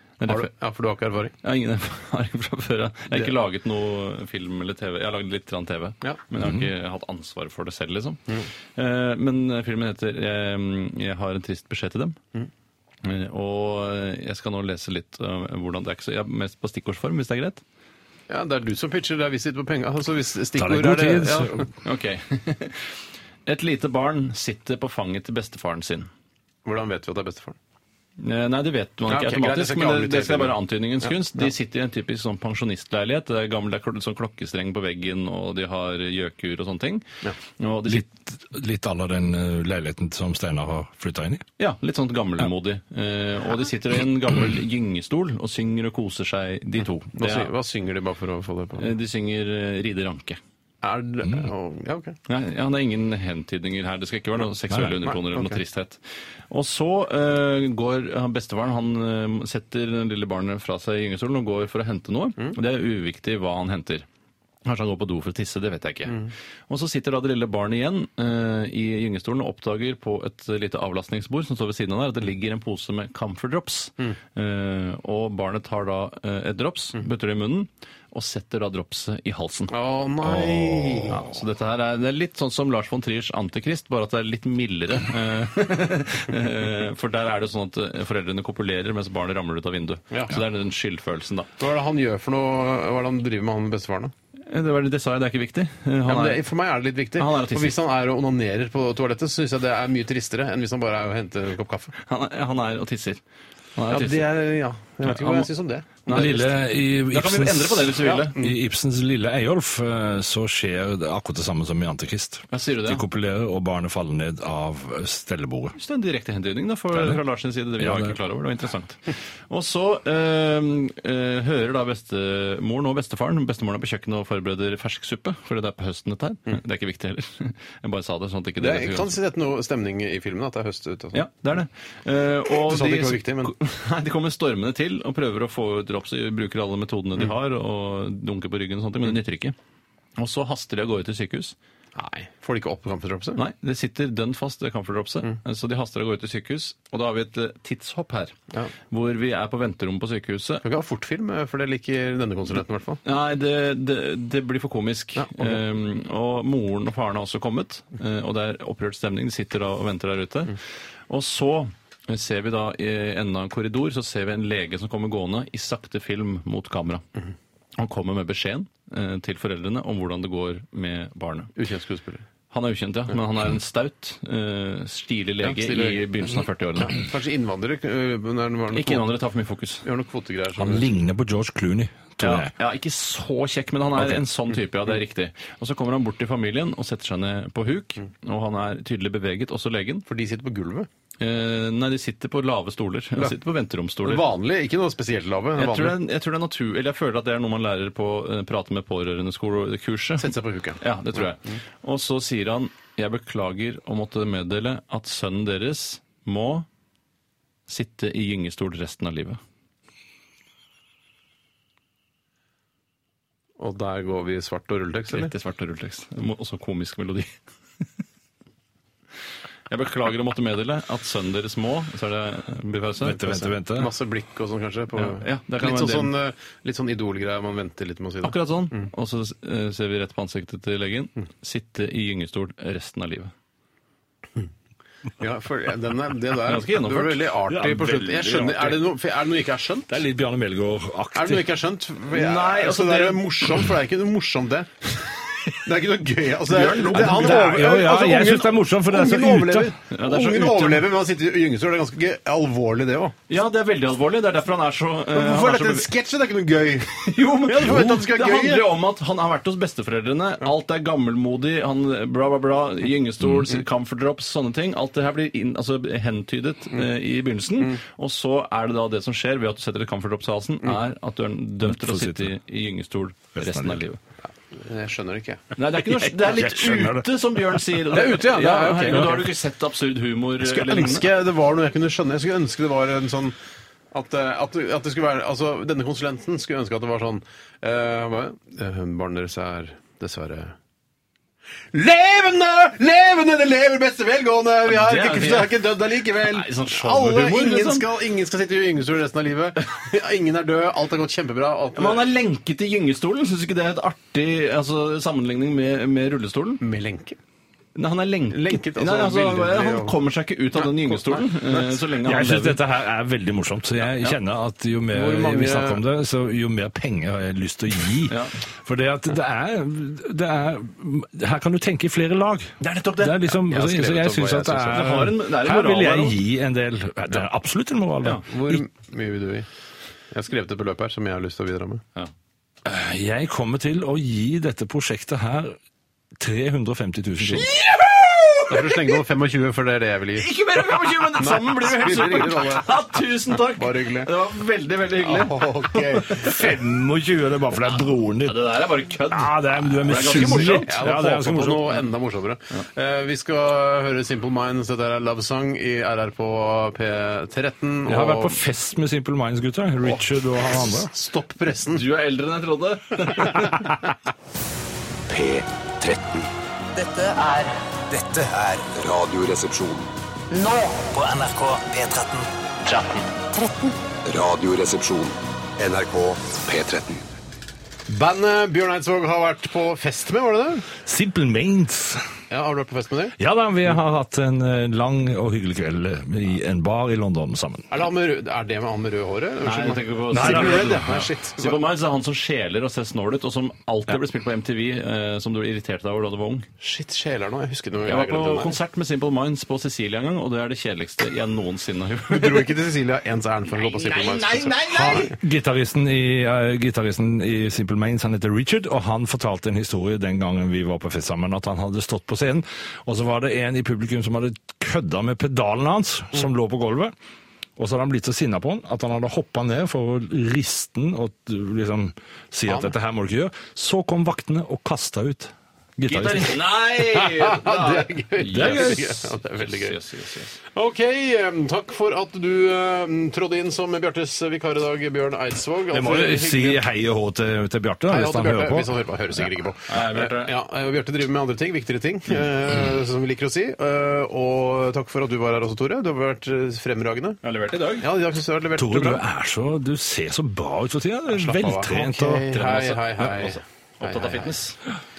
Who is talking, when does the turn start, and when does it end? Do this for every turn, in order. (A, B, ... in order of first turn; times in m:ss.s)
0:00.2-0:00.5 A
0:00.3-0:01.3 B
0:01.4-0:12.2 A
0:06.4-0:06.7 C
0:13.0-0:17.6 A
0:18.3-0:21.7 B
0:20.6-0:21.6 C
0:21.8-0:22.9 A
0:23.4-0:26.1 A
0:26.6-0:27.6 B
0:28.2-0:37.0 A
0:29.1-0:31.4 B
0:37.6-0:38.1 A
0:37.9-0:41.4 C
0:41.6-0:47.5 A
0:47.1-0:48.9 B
0:48.8-0:50.4 A
0:50.8-0:52.1 B
0:51.2-0:51.5 C
0:52.3-1:04.0 A
0:55.0-0:55.6 B
1:04.6-1:19.7 A
1:19.7-1:21.2 B
1:20.2-1:21.3 C
1:21.1-1:31.5 A
1:31.6-1:34.1 B
1:34.4-1:36.4 A
1:36.0-1:41.9 B
1:37.2-1:37.8 A
1:42.0-1:43.2 A
1:43.7-1:44.3 A
1:43.9-1:46.5 B
1:45.0-1:45.5 A
1:46.0-1:48.3 A
1:46.1-1:55.8 C
1:48.0-1:48.5 B
1:52.5-1:53.0 A
1:55.8-2:09.2 A
1:56.9-1:57.2 C
1:57.8-1:58.2 C
2:08.6-2:11.2 B
2:11.1-2:19.5 A
2:12.5-2:13.5 B
2:20.2-2:21.5 A
2:21.9-2:23.4 B
2:23.4-2:28.3 A
2:28.9-2:30.6 A
2:30.6-2:33.0 B
2:33.0-2:40.6 A
2:35.2-2:35.6 B
2:41.1-2:47.0 A
2:47.8-2:51.5 A
2:51.6-2:52.2 B
2:52.5-2:56.9 A
2:55.4-2:59.0 B
2:58.7-2:59.8 A
2:59.8-3:00.9 B
3:00.6-3:02.5 C
3:02.2-3:10.0 A
3:04.1-3:04.5 B
3:10.1-3:10.9 B
3:11.2-3:14.2 A
3:14.0-3:16.0 B
3:15.6-3:26.6 A
3:20.2-3:20.8 B
3:27.7-3:29.4 A
3:33.6-3:35.3 B
3:35.1-3:37.3 A
3:39.7-3:43.2 A
3:43.0-3:43.9 C
3:43.1-3:48.9 B
3:45.0-3:46.1 A
3:48.2-3:53.3 A
3:55.2-4:00.0 B
3:56.4-3:57.3 A
3:57.5-3:58.9 C
3:59.9-4:01.5 C
4:01.1-4:04.9 B
4:02.1-4:03.2 A
4:05.5-4:13.2 B
4:06.5-4:07.5 A
4:06.9-4:09.7 C
4:09.9-4:10.9 A
4:13.3-4:15.9 A
4:15.1-4:18.7 B
4:16.9-4:34.0 A
4:31.6-4:32.3 C
4:33.4-4:33.8 C
4:34.5-4:35.6 B
4:35.6-4:41.1 A
4:36.2-4:37.0 C
4:36.3-4:36.9 B
4:37.8-4:39.3 B
4:40.4-4:43.4 B
4:43.9-4:50.5 B
4:51.7-5:02.1 B
4:54.7-4:55.6 A
4:56.2-4:57.9 A
5:01.7-5:06.6 A
5:06.6-5:07.2 B
5:07.8-5:12.6 A
5:08.3-5:10.0 B
5:10.6-5:11.8 B
5:12.0-5:28.6 C
5:14.9-5:15.8 B
5:18.1-5:18.4 A
5:22.6-5:23.2 A
5:23.3-5:25.1 B
5:24.7-5:26.2 A
5:28.2-5:29.5 B
5:30.1-5:31.8 B
5:32.6-5:35.6 C
5:36.2-5:37.5 C
5:37.4-5:38.9 A
5:38.5-5:40.3 B
5:40.2-5:46.5 A
5:41.2-5:44.1 B
5:44.9-5:46.4 B
5:46.2-5:48.5 C
5:48.2-5:50.7 A
5:49.1-5:51.8 C
5:50.0-5:58.4 B
5:57.8-6:00.9 C
6:00.6-6:01.8 B
6:01.7-6:03.6 A
6:03.4-6:03.7 C
6:05.1-6:08.7 D
6:08.7-6:09.9 E
6:10.3-6:13.8 D
6:14.0-6:17.1 E
6:17.9-6:20.7 B
6:20.8-6:22.1 C
6:22.3-6:23.2 B
6:23.2-6:27.7 C
6:27.7-6:31.6 B
6:29.4-6:36.5 A
6:30.1-6:31.1 C
6:36.6-6:38.6 B
6:37.8-6:42.6 A
6:42.1-6:45.1 B
6:43.5-6:45.2 A
6:44.9-6:56.9 C
6:57.6-7:06.4 C
7:02.5-7:02.7 B
7:05.9-7:10.4 A
7:06.8-7:09.8 B
7:08.3-7:08.9 C
7:10.5-7:16.6 B
7:15.7-7:18.7 C
7:17.9-7:27.2 B
7:19.7-7:20.4 A
7:27.2-7:27.9 A
7:27.8-7:29.0 B
7:28.6-7:33.1 C
7:31.1-7:34.3 B
7:32.6-7:34.6 A